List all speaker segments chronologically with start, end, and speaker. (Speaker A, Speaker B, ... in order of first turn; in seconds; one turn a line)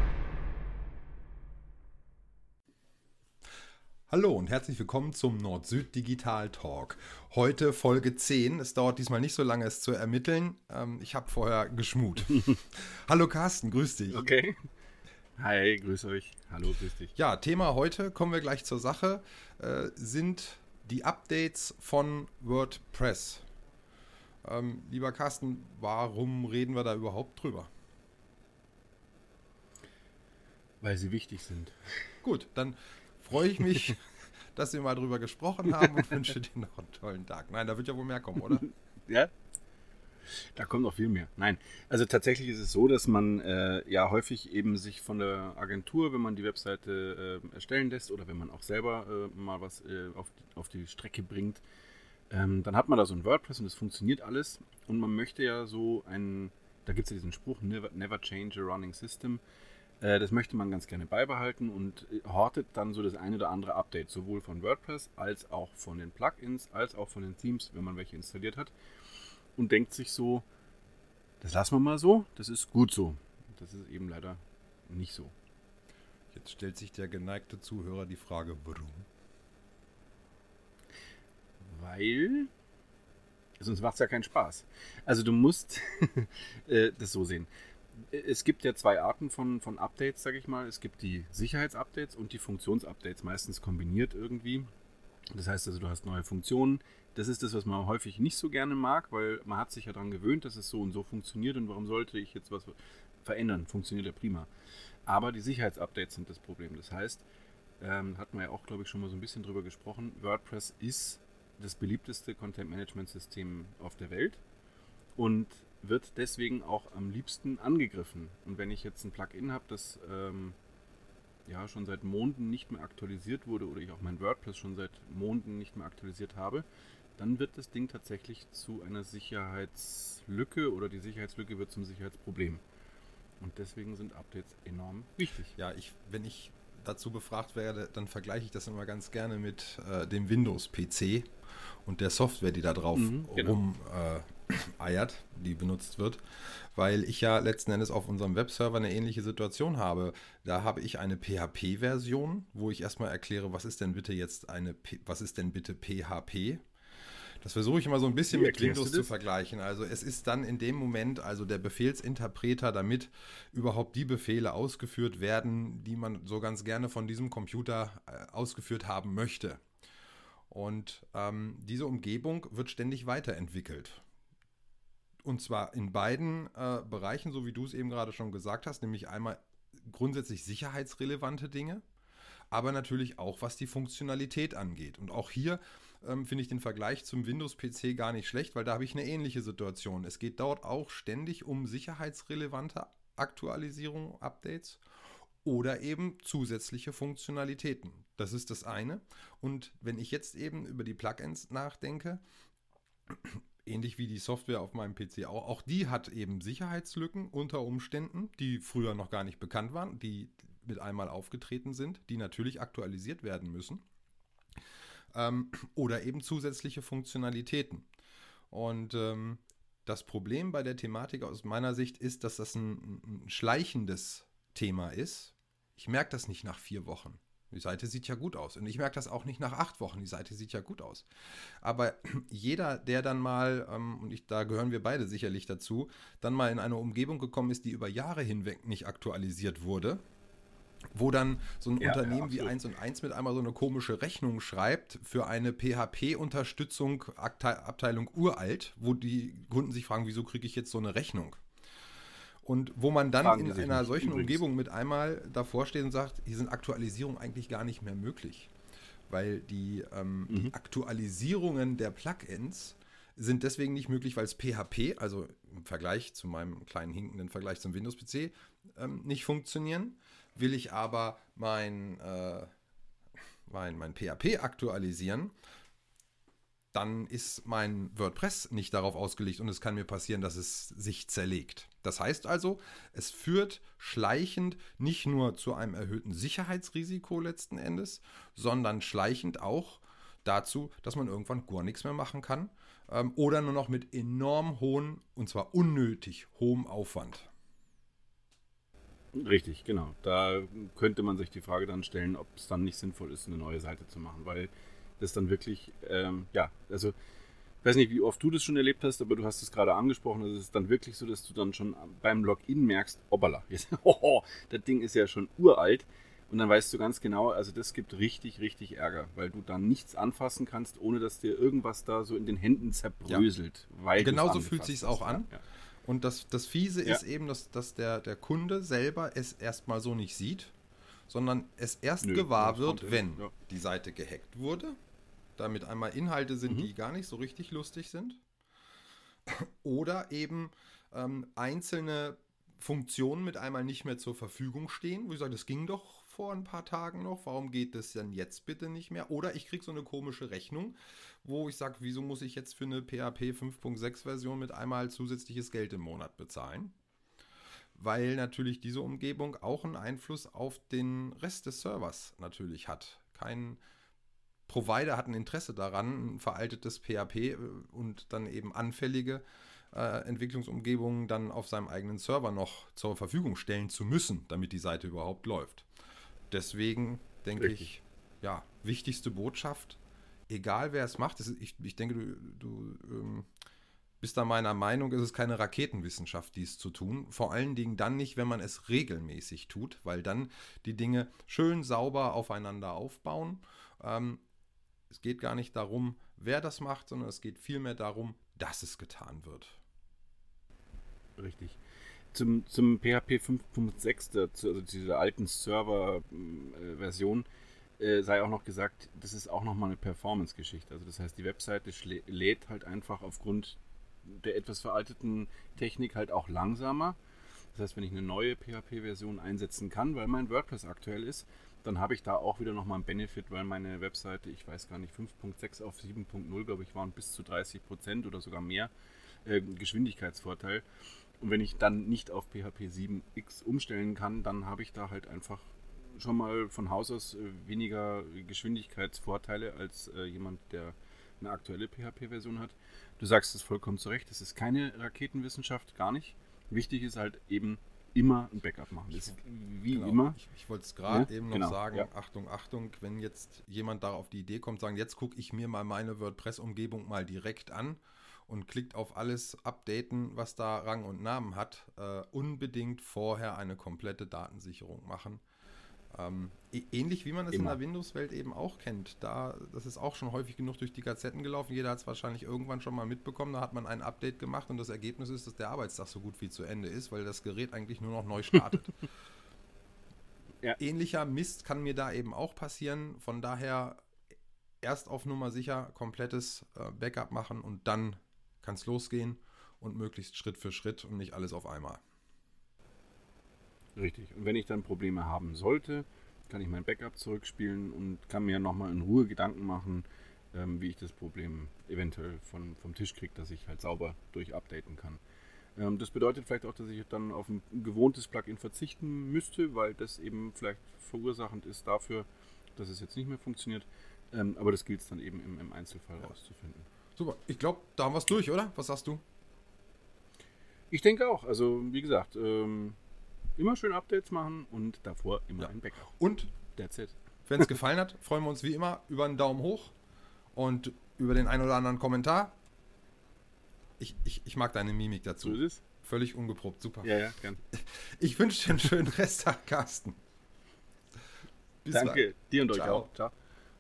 Speaker A: 4.1-14.2
Speaker B: 14.1-14.7
Speaker B: 15.4-17.1
Speaker A: 17.1-23.4
Speaker A: 24.4-27.7
Speaker B: 30.8-31.8
Speaker A: 32.2-38.7
Speaker B: 39.1-39.3
Speaker B: 40.5-51.6
Speaker B: 52.3-59.4
Speaker B: 60.0-68.7
Speaker B: 69.5-70.5
Speaker B: 71.4-75.3
Speaker A: 76.3-79.1
Speaker B: 81.6-82.5
Speaker B: 83.6-94.7
Speaker B: 95.3-104.5
Speaker B: 105.0-107.2
Speaker B: 107.8-114.4
Speaker B: 115.2-120.5
Speaker B: 121.5-126.7
Speaker B: 127.2-132.6
Speaker B: 133.4-135.5
Speaker A: 135.5-141.3
Speaker A: 141.8-146.2
Speaker B: 142.9-143.6
Speaker A: 146.7-156.6
Speaker A: 157.4-169.6
Speaker B: 158.3-159.1
Speaker A: 170.5-174.0
Speaker A: 175.2-181.8
Speaker A: 182.5-194.8
Speaker A: 195.4-202.2
Speaker A: 203.1-213.8
Speaker A: 215.1-217.8
Speaker A: 218.5-231.1
Speaker A: 231.6-240.0
Speaker A: 240.9-251.4
Speaker B: 241.8-242.6
Speaker A: 252.4-258.5
Speaker B: 253.2-254.4
Speaker A: 259.1-272.5
Speaker A: 273.5-275.3
Speaker A: 276.7-297.3
Speaker B: 299.1-306.9
Speaker B: 307.6-325.4
Speaker A: 324.0-325.3
Speaker A: 325.9-330.5
Speaker A: 331.1-334.8
Speaker B: 332.0-333.3
Speaker A: 335.4-338.2
Speaker A: 339.3-356.7
Speaker A: 357.8-363.6
Speaker A: 364.5-375.7
Speaker A: 376.3-383.3
Speaker B: 377.4-377.7
Speaker A: 384.0-394.2
Speaker A: 394.9-399.6
Speaker B: 401.2-401.6
Speaker B: 402.1-407.3
Speaker B: 407.8-417.0
Speaker B: 417.5-428.7
Speaker B: 429.2-430.6
Speaker B: 431.2-450.2
Speaker A: 449.7-465.2
Speaker B: 450.9-451.9
Speaker A: 465.9-478.9
Speaker B: 467.3-467.6
Speaker A: 480.6-483.8
Speaker A: 484.6-491.8
Speaker B: 493.8-505.0
Speaker B: 505.6-516.7
Speaker A: 517.0-519.0
Speaker B: 520.7-522.8
Speaker B: 523.4-525.9
Speaker A: 525.4-526.3
Speaker B: 526.5-526.9
Speaker A: 527.3-529.7
Speaker A: 530.3-532.4
Speaker A: 533.8-537.0
Speaker B: 535.2-535.6
Speaker B: 536.8-537.4
Speaker A: 537.5-540.0
Speaker A: 541.6-542.9
Speaker B: 541.7-543.1